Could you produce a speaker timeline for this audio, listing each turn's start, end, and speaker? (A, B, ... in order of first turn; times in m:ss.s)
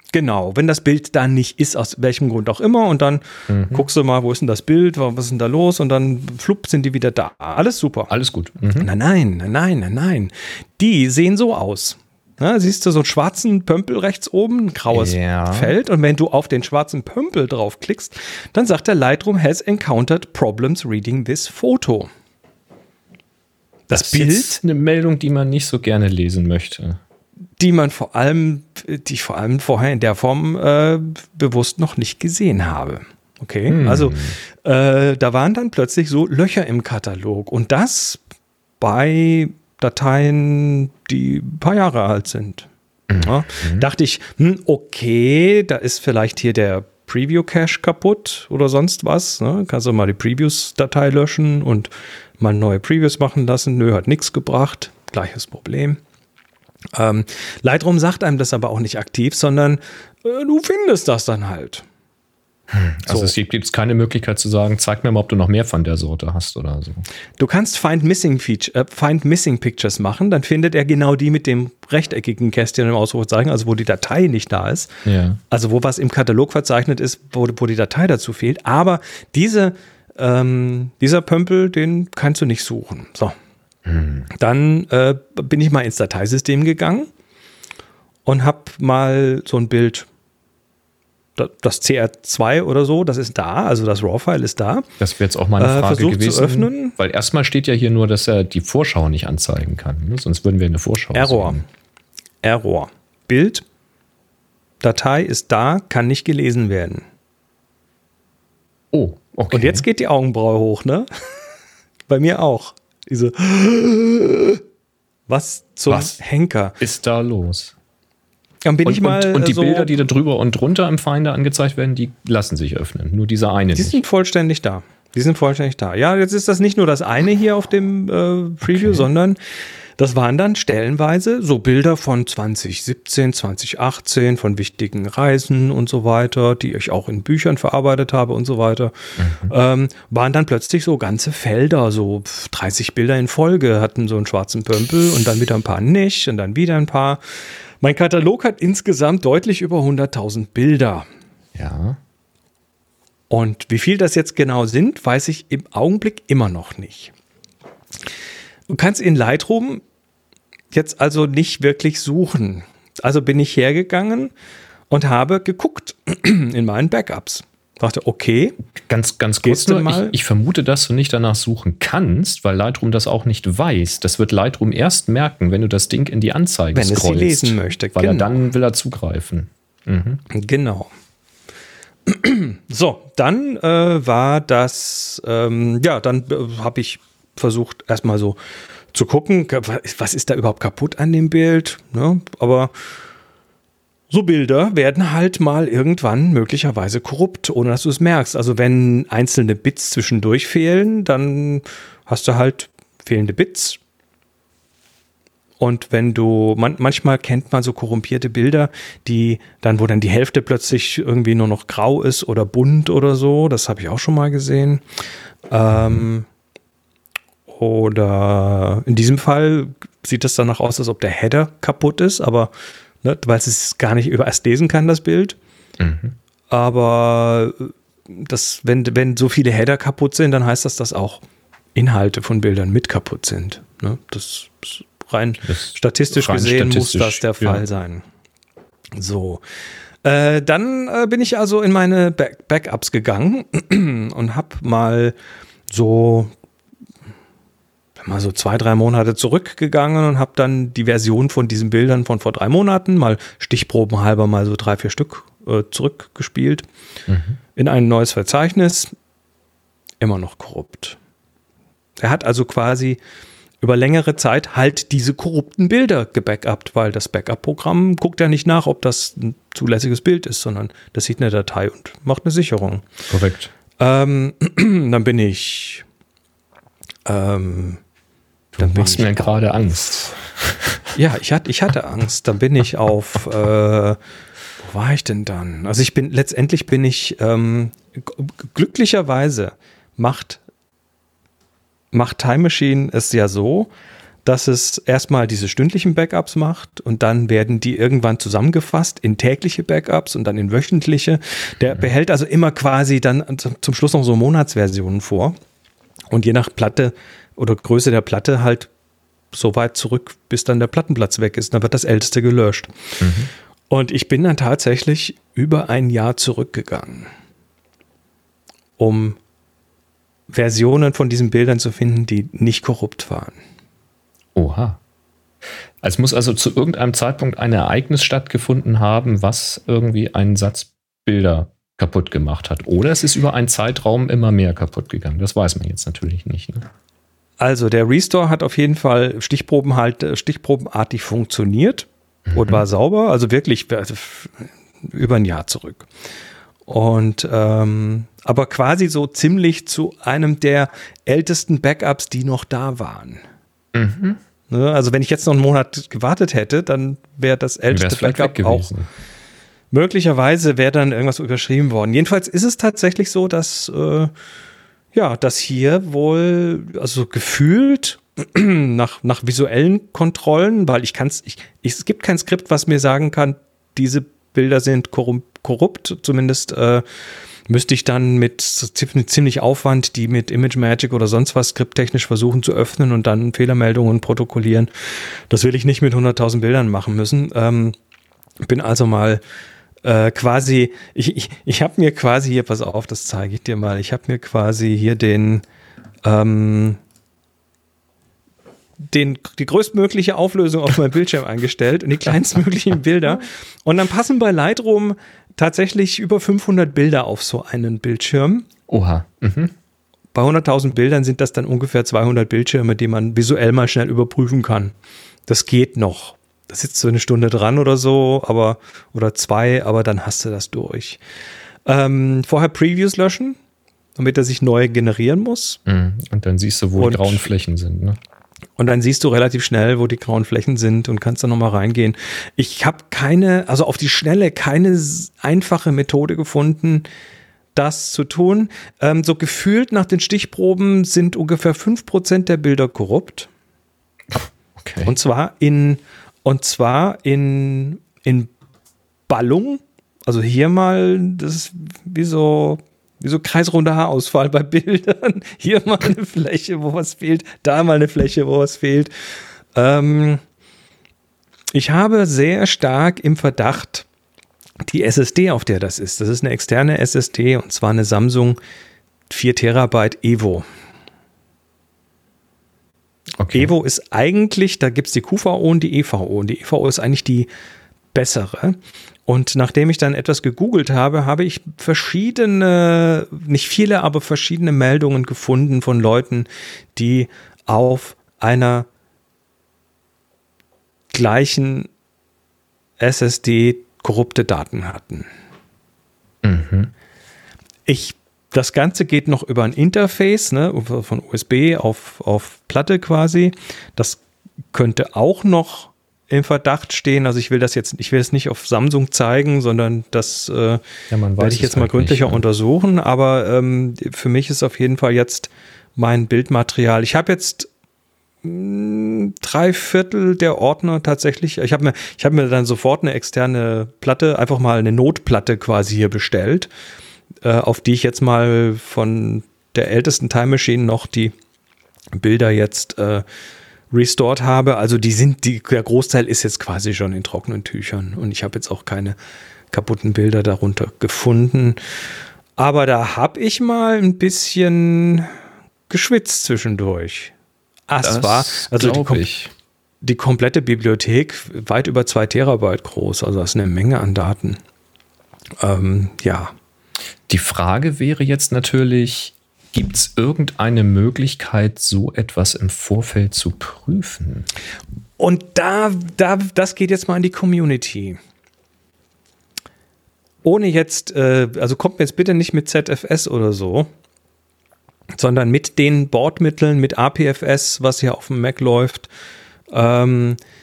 0:00.1-0:08.1 A
0:03.5-0:03.8 B
0:08.1-0:08.9 B
0:08.8-0:22.1 A
0:14.9-0:15.8 B
0:23.9-0:24.6 A
0:23.9-0:27.0 B
0:27.6-0:38.2 A
0:33.7-0:34.4 B
0:38.8-0:42.7 A
0:43.1-0:43.9 B
0:43.2-0:56.0 A
0:56.9-1:01.8 A
1:02.7-1:07.0 B
1:07.4-1:14.9 A
1:15.1-1:15.4 B
1:15.5-1:23.4 A
1:23.9-1:24.3 B
1:24.4-1:27.1 A
1:28.3-1:30.1 A
1:31.4-1:34.9 A
1:35.0-1:41.6 B
1:35.6-1:37.0 A
1:41.2-1:41.6 A
1:42.4-1:43.6 A
1:44.8-1:47.0 A
1:48.9-1:49.8 B
1:49.5-1:51.5 A
1:52.1-1:54.6 A
1:55.3-1:56.8 A
1:55.9-1:56.2 B
1:56.8-1:57.7 B
1:58.6-1:59.9 A
1:58.8-2:04.0 B
2:03.7-2:09.4 A
2:08.7-2:09.1 B
2:10.0-2:31.1 A
2:19.2-2:19.5 B
2:31.6-2:32.0 B
2:33.3-2:37.1 A
2:38.7-2:39.8 A
2:40.7-2:44.3 A
2:44.9-2:48.6 A
2:48.9-3:00.2 B
2:49.4-2:50.2 A
2:56.7-2:58.3 A
3:00.3-3:00.9 A
3:02.1-3:08.4 A
3:08.9-3:12.7 A
3:14.1-3:23.8 A
3:25.6-3:34.8 A
3:35.5-3:36.3 A
3:35.8-3:36.0 B
3:37.5-3:42.5 A
3:43.0-3:45.4 A
3:45.8-3:46.2 B
3:46.5-3:51.2 A
3:51.8-3:58.0 A
3:55.5-3:57.6 B
3:59.0-3:59.4 A
4:00.0-4:05.2 A
4:05.7-4:06.3 A
4:08.0-4:16.6 A
4:17.1-4:17.4 B
4:17.6-4:18.9 A
4:20.0-4:21.0 A
4:22.0-4:23.0 A
4:23.6-4:32.9 A
4:33.1-4:33.5 B
4:33.8-4:35.8 A
4:37.1-4:37.8 A
4:38.5-4:40.8 B
4:38.6-4:39.4 A
4:41.0-4:44.0 A
4:44.6-4:50.4 A
4:51.9-4:53.7 A
4:54.2-5:05.4 A
5:06.1-5:08.7 A
5:09.3-5:12.7 A
5:13.0-5:13.3 B
5:13.7-5:17.1 A
5:18.8-5:19.2 A
5:20.3-5:23.4 A
5:24.4-5:24.8 B
5:25.8-5:36.7 B
5:37.4-5:45.9 A
5:42.3-5:42.6 B
5:46.7-5:53.2 A
5:53.7-5:54.2 B
5:54.5-5:58.7 A
5:57.7-5:58.9 B
5:59.7-6:04.1 A
6:04.9-6:16.8 A
6:17.5-6:27.8 A
6:28.4-6:29.2 A
6:29.8-6:35.4 A
6:36.0-6:36.8 A
6:38.9-6:48.5 A
6:48.7-6:49.5 B
6:50.2-6:54.7 A
6:55.3-7:01.0 A
7:01.7-7:03.4 A
7:04.0-7:05.6 A
7:05.7-7:08.0 B
7:06.8-7:07.3 A
7:08.6-7:16.9 A
7:17.6-7:23.3 A
7:24.6-7:24.9 B
7:24.8-7:28.3 A
7:29.1-7:38.9 A
7:39.6-7:40.2 A
7:41.5-7:43.8 A
7:44.6-7:48.4 A
7:49.1-7:50.5 A
7:53.2-7:53.5 B
7:53.3-7:57.3 A
7:57.9-8:08.7 A
8:10.9-8:11.7 A
8:12.8-8:15.1 A
8:16.2-8:16.7 B
8:17.7-8:24.0 A
8:24.5-8:30.6 A
8:30.9-8:32.2 B
8:31.2-8:37.5 A
8:38.2-8:46.5 A
8:47.2-8:51.1 A
8:52.0-8:53.0 A
8:53.7-8:59.0 A
8:59.5-9:01.6 A
9:02.4-9:05.1 A
9:05.7-9:07.1 A
9:07.7-9:09.1 A
9:07.8-9:09.3 B
9:09.8-9:14.4 A
9:15.4-9:16.3 A
9:17.1-9:24.3 B
9:25.0-9:28.0 A
9:30.2-9:33.7 A
9:35.0-9:38.9 A
9:39.5-9:40.2 A